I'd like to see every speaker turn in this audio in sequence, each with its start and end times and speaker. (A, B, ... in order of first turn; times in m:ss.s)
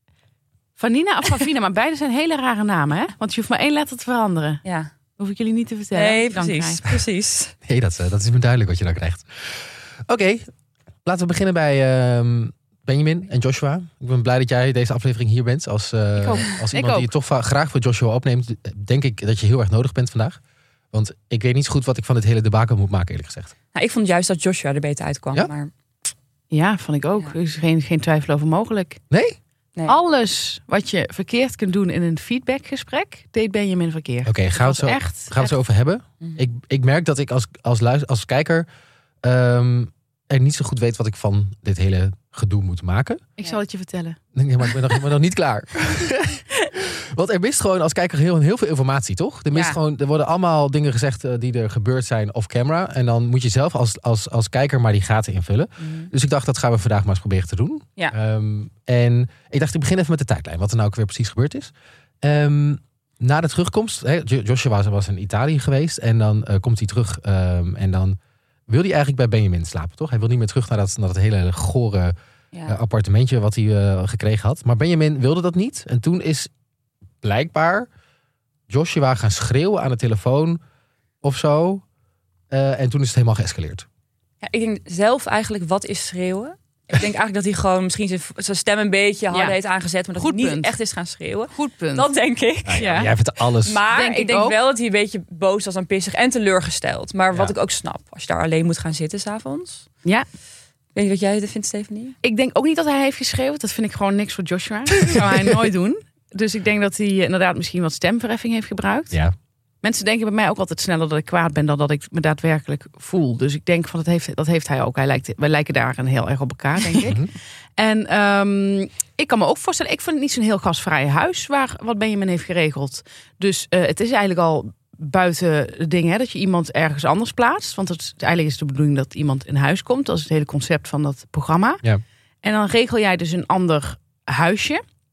0:00.8-0:04.6 A
0:04.6-0:04.9 B
0:05.2-0:07.0 A
0:05.9-0:07.5 B
0:07.6-0:10.5 C
0:11.0-0:20.4 C
0:16.2-0:17.1 A
0:20.9-0:23.5 C
0:23.7-0:25.7 B
0:26.5-0:29.0 A
0:29.1-0:29.4 C
0:29.9-0:35.5 A
0:34.3-0:38.7 C
0:39.2-0:43.3 C
0:43.4-0:44.2 A
0:44.4-1:01.7 C
1:02.2-1:12.2 C
1:12.5-1:12.8 B
1:12.7-1:16.5 C
1:17.2-1:17.9 C
1:18.7-1:20.6 C
1:21.2-1:21.8 C
1:22.5-1:23.9 C
1:24.4-1:39.9 B
1:29.3-1:29.6 A
1:30.2-1:30.7 A
1:31.5-1:32.1 A
1:32.7-1:33.8 C
1:32.8-1:33.1 A
1:33.9-1:34.6 A
1:41.0-1:42.2 B
1:42.2-1:49.2 A
1:45.0-1:45.6 C
1:49.8-2:11.8 A
1:57.0-1:57.3 C
2:12.4-2:14.8 A